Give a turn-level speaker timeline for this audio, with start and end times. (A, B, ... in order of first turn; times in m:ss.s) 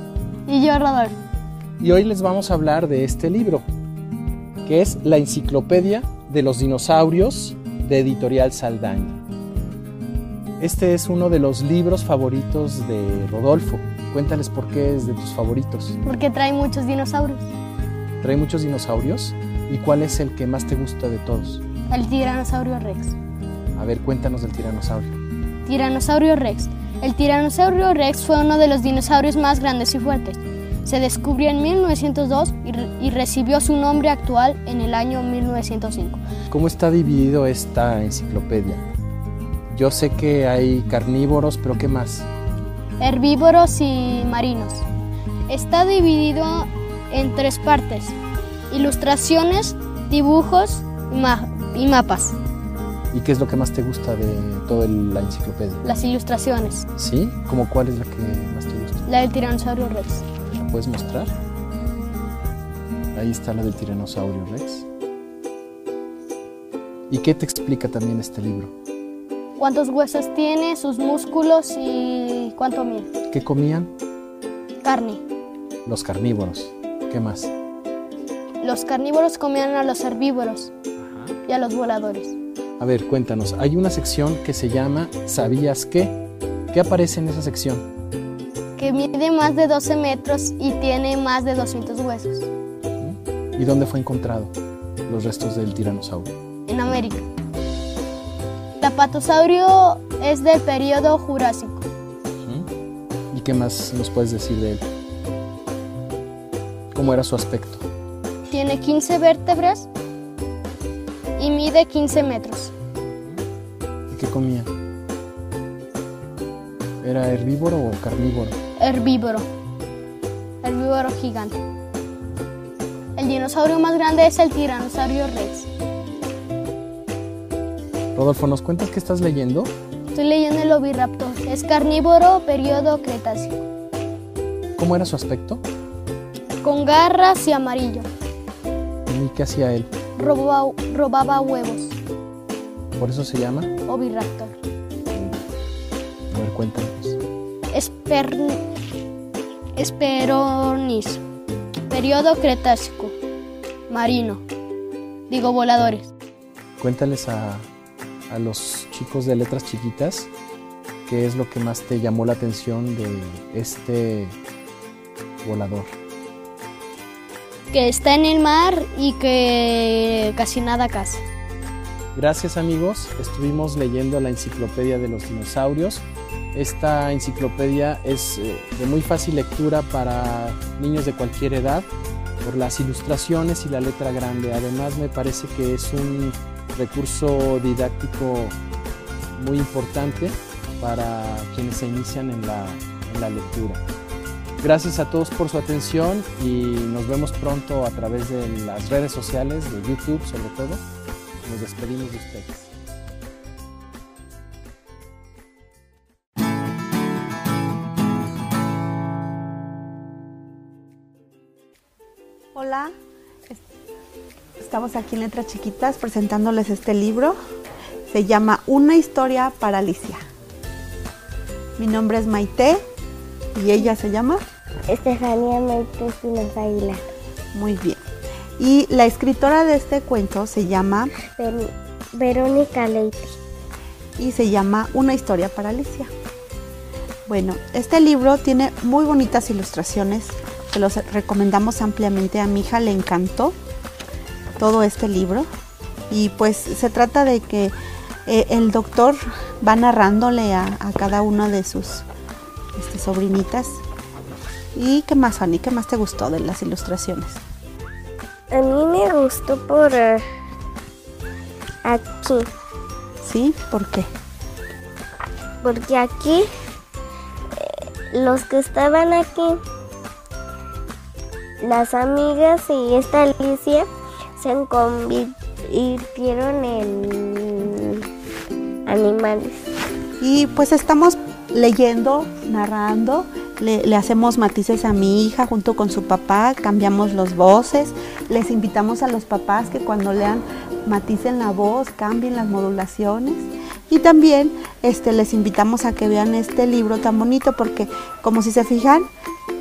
0:00.5-0:01.2 A
0:01.8-0:03.6 B
0:04.6-0:09.2 B
0:10.6-0:16.0 B
0:16.0-0:17.5 A
0:18.2-0:21.6 B
0:21.9-0:23.2 A
0:23.8-0:25.2 B
0:25.7-0:36.2 A
0:36.5-0:38.8 B
0:39.7-0:42.3 B
0:43.0-0:44.8 A
0:45.5-0:48.2 A
0:48.7-0:52.4 A
0:53.1-0:55.8 B
0:55.8-0:56.9 A
0:57.0-0:59.0 B
0:59.1-1:00.2 A
1:00.6-1:01.3 B
1:03.1-1:04.8 B
1:07.1-1:08.7 B
1:09.6-1:13.1 A
1:13.3-1:13.9 B
1:14.8-1:15.2 A
1:15.9-1:17.5 B
1:18.6-1:20.7 A
1:21.5-1:22.4 A
1:22.8-1:26.2 B
1:26.7-1:27.8 B
1:28.8-1:32.5 A
1:33.0-1:34.5 B
1:35.1-1:36.3 B
1:36.7-1:37.3 A
1:38.8-1:41.9 A
1:43.3-1:44.8 B
1:46.9-1:47.8 B
1:48.5-1:49.9 A
1:51.4-1:52.7 A
1:54.1-1:54.7 B
1:57.0-1:58.6 B
1:58.8-1:59.5 A
2:00.6-2:01.6 A
2:03.2-2:05.7 A
2:08.2-2:09.7 B
2:10.1-2:13.7 A
2:14.8-2:15.6 B
2:16.5-2:18.1 A
2:19.1-2:19.9 B
2:20.2-2:22.0 A
2:23.0-2:23.7 B
2:23.9-2:24.6 A
2:25.1-2:25.4 B
2:26.3-2:27.2 B
2:27.7-2:28.6 A
2:29.8-2:31.2 A
2:31.9-2:33.2 A
2:33.9-2:34.4 A
2:35.3-2:36.1 A
2:36.8-2:37.7 B
2:38.3-2:40.3 B
2:41.1-2:44.4 B
2:45.4-2:45.9 B
2:47.7-2:51.2 A
2:52.1-3:01.9 B
3:02.4-3:08.6 B
3:09.4-3:13.8 B
3:14.6-3:20.8 B
3:21.4-3:22.7 B
3:32.5-3:32.9 C
3:34.6-3:37.4 C
3:38.1-3:40.2 C
3:41.8-3:42.8 C
3:43.6-3:44.4 C
3:44.9-3:47.0 D
3:47.5-3:48.0 C
3:48.6-3:51.1 C
3:51.4-3:53.4 D
3:54.2-3:56.1 C
3:57.3-4:03.6 C
4:04.6-4:05.5 C
4:06.1-4:07.7 C
4:08.3-4:12.1 C
4:12.8-4:13.8 C
4:14.8-4:17.4 C
4:18.5-4:20.2 D
4:21.8-4:22.5 D
4:23.2-4:24.1 C
4:25.6-4:26.5 D
4:27.6-4:29.6 D
4:31.6-4:37.9 D
4:38.9-4:39.6 D
4:40.2-4:59.1 C